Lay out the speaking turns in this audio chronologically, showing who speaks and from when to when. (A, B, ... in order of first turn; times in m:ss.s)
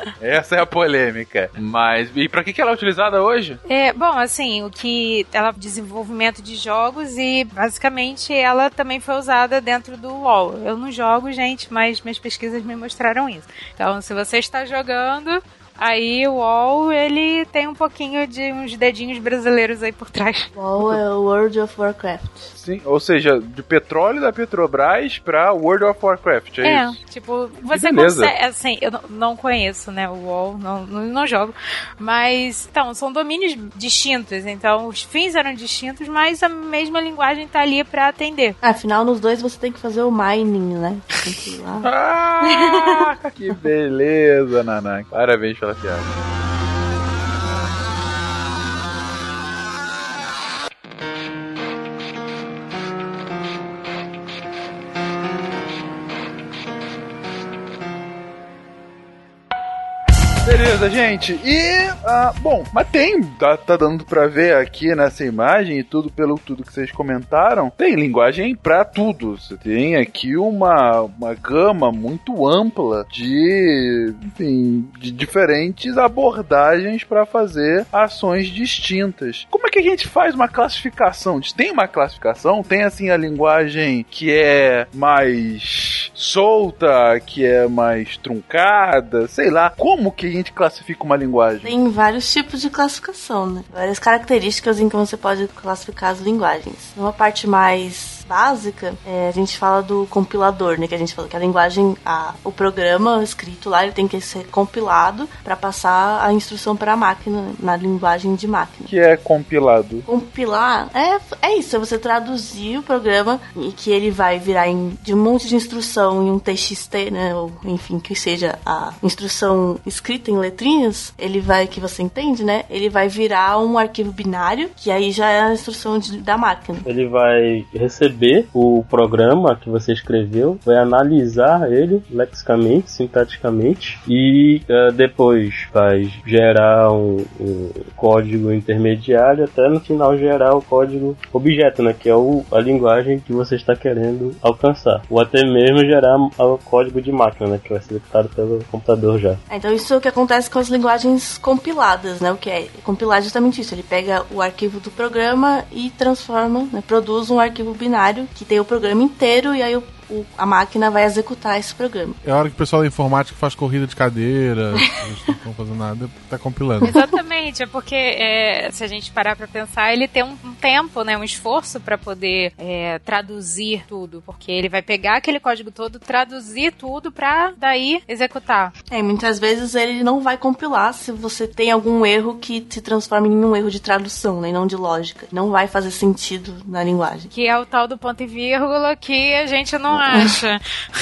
0:00.2-0:03.6 A
0:03.6-0:20.5 B
0:20.5-0:22.5 C
0:22.6-0:27.0 A
0:26.6-0:38.6 B
0:27.7-0:28.3 A
0:38.6-0:41.9 C
0:41.8-0:46.1 A
0:42.4-0:43.0 C
1:00.4-1:31.7 A
1:31.6-1:48.9 C
1:48.9-1:50.0 A
1:50.0-2:06.8 C
2:06.8-2:29.4 D
2:29.5-2:42.2 C
2:42.2-2:47.0 E
2:46.8-2:58.7 B
2:58.9-3:07.3 C
3:07.3-3:10.6 B